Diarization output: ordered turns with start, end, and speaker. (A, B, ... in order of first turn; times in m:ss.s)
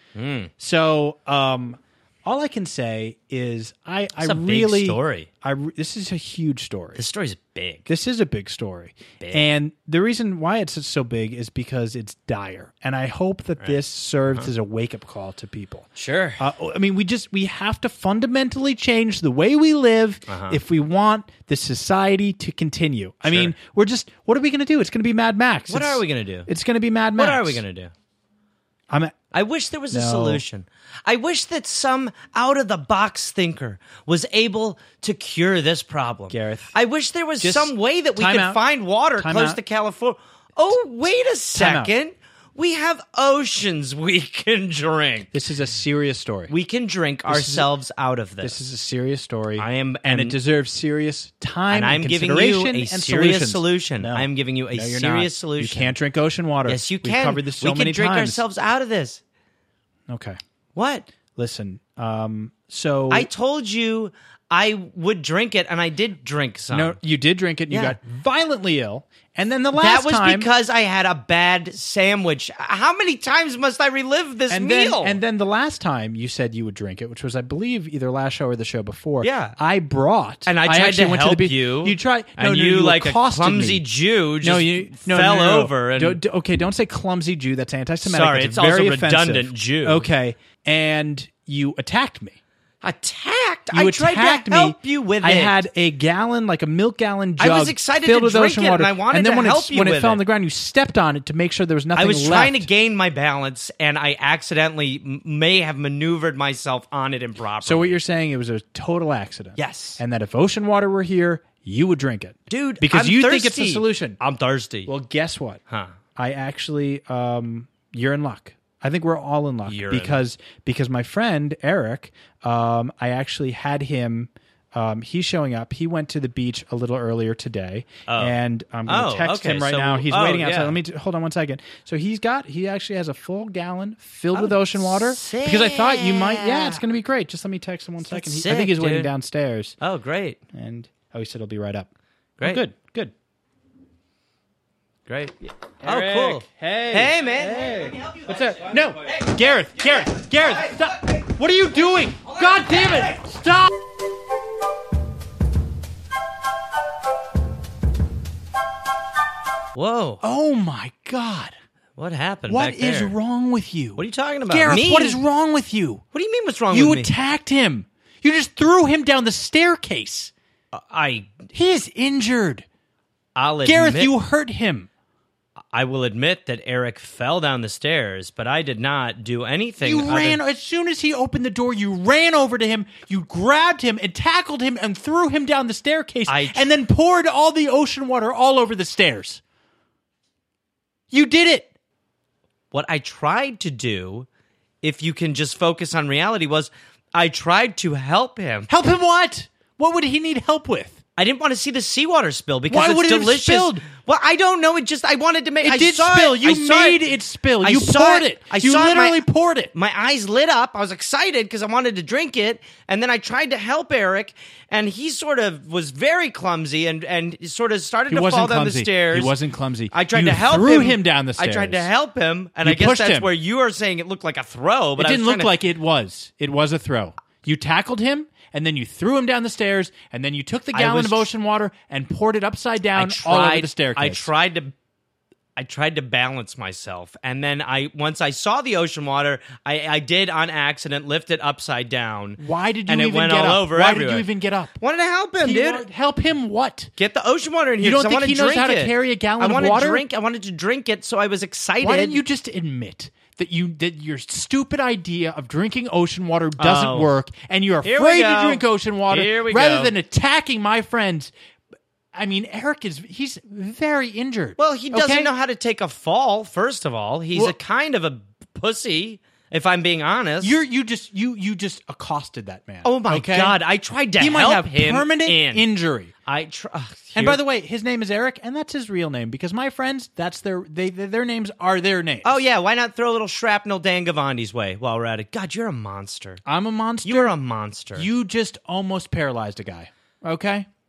0:00.1-0:00.5 A
0:00.6-0:07.0 B
0:04.2-0:05.3 A
0:06.9-0:07.9 A
0:07.9-0:27.6 B
0:09.2-0:09.5 A
0:13.6-0:14.5 A
0:16.0-0:16.4 A
0:20.3-0:20.6 A
0:23.3-0:23.5 A
0:25.7-0:26.5 A
0:27.2-0:27.9 A
0:28.9-0:29.2 B
0:29.3-0:45.3 A
0:29.9-0:30.4 B
0:36.3-0:36.7 B
0:37.4-0:38.6 B
0:39.2-0:39.6 B
0:41.5-0:41.9 B
0:45.3-0:46.5 B
0:46.5-0:48.6 A
0:47.3-0:47.7 B
0:48.4-0:58.4 B
0:49.6-0:50.4 A
0:51.7-0:55.9 A
0:56.6-0:59.2 A
1:00.1-1:00.4 B
1:00.7-1:01.1 A
1:01.3-1:03.3 B
1:03.1-1:07.0 A
1:06.7-1:10.5 B
1:07.7-1:08.0 A
1:09.7-1:15.2 A
1:14.5-1:23.8 B
1:19.2-1:19.6 A
1:20.4-1:26.2 A
1:24.4-1:32.4 B
1:28.0-1:30.1 A
1:32.8-1:35.6 A
1:33.7-1:42.7 B
1:37.4-1:40.2 A
1:42.0-1:48.0 A
1:47.6-1:54.2 B
1:49.6-1:50.0 A
1:52.5-1:54.9 A
1:54.8-1:55.6 B
1:55.7-1:55.9 A
1:56.2-2:19.8 B
1:59.6-2:00.2 A
2:08.1-2:10.8 A
2:14.3-2:16.8 A
2:18.1-2:19.1 A
2:19.8-2:20.4 A
2:20.5-2:21.9 B
2:22.4-2:22.6 A
2:22.4-2:23.1 B
2:25.0-2:30.8 A
2:25.8-2:33.7 B
2:32.2-2:33.1 A
2:39.7-2:40.2 A
2:40.2-2:41.5 B
2:42.0-2:43.2 A
2:42.5-2:46.0 B
2:44.0-2:45.2 A
2:46.1-2:47.1 A
2:46.7-2:50.3 B
2:50.7-2:51.4 A
2:51.5-2:52.6 B
2:53.3-2:54.1 A
2:53.6-2:54.9 B
2:55.7-3:00.4 A
2:59.8-3:09.4 B
3:06.3-3:06.7 A
3:11.1-3:11.7 B
3:12.7-3:14.3 A
3:14.8-3:18.7 A
3:18.7-3:21.0 B
3:21.2-3:27.1 A
3:22.7-3:23.8 B
3:25.6-3:29.7 B
3:27.6-3:39.4 A
3:38.1-3:41.9 B
3:39.9-3:45.5 A
3:42.6-3:43.3 B
3:45.0-3:54.3 B
3:50.7-3:51.3 A
3:52.9-3:54.7 A
3:55.6-4:05.8 A
4:02.4-4:04.7 B
4:05.4-4:06.9 B
4:07.0-4:12.2 A
4:07.8-4:10.0 B
4:11.8-4:21.3 B
4:16.6-4:17.1 A
4:17.8-4:19.9 A
4:22.1-4:25.3 B
4:24.6-4:30.6 A
4:30.4-4:33.6 B
4:32.8-4:35.7 A
4:34.2-4:36.1 B
4:36.2-4:37.4 A
4:37.1-4:42.4 B
4:42.2-4:46.4 A
4:46.4-4:47.4 B
4:47.0-4:48.1 A
4:47.9-4:50.7 B